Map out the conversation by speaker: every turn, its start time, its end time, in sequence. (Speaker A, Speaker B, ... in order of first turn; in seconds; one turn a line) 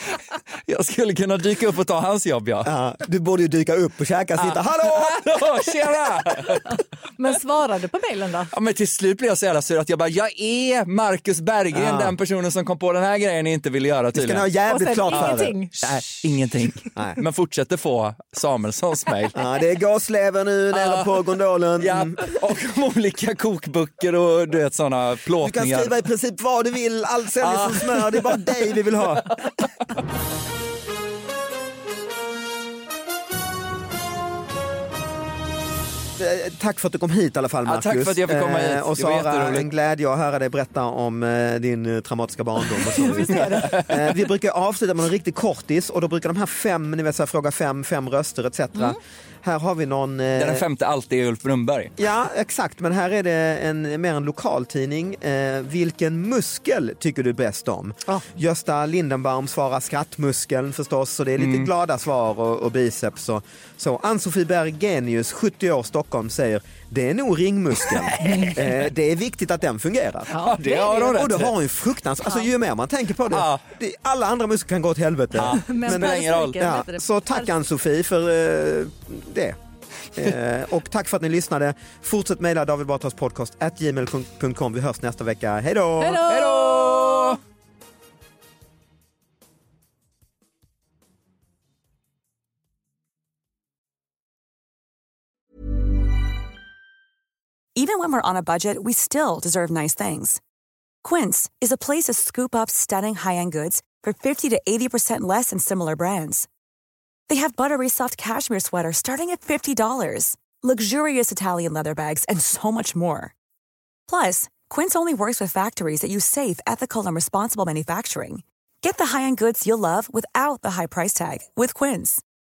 Speaker A: 0.7-2.7
Speaker B: 2.6-5.2
Speaker A: 4.4-6.7
Speaker C: 6.7-8.5
Speaker A: 8.5-14.5
Speaker B: 11.7-12.1
Speaker B: 14.1-15.5
Speaker C: 14.7-16.2
Speaker A: 15.1-19.4
Speaker B: 16.9-17.2
Speaker B: 19.3-22.3
Speaker A: 20.7-21.2
Speaker A: 21.8-25.9
Speaker B: 25.4-29.3
Speaker A: 27.4-29.4
Speaker B: 36.2-50.6
Speaker A: 37.6-39.7
Speaker C: 42.9-43.9
Speaker A: 43.4-44.1
Speaker A: 50.4-51.9
Speaker B: 52.0-79.6
Speaker A: 61.4-61.7
Speaker A: 68.1-68.5
Speaker C: 68.2-68.7
Speaker C: 70.3-71.3
Speaker A: 70.5-71.5
Speaker A: 73.3-73.6
Speaker A: 75.3-76.6
Speaker C: 75.5-77.5
Speaker B: 80.2-86.3
Speaker C: 86.0-87.4
Speaker A: 86.2-87.4
Speaker D: 97.7-100.4
Speaker D: 101.0-106.5
Speaker D: 107.3-113.3
Speaker D: 114.1-122.2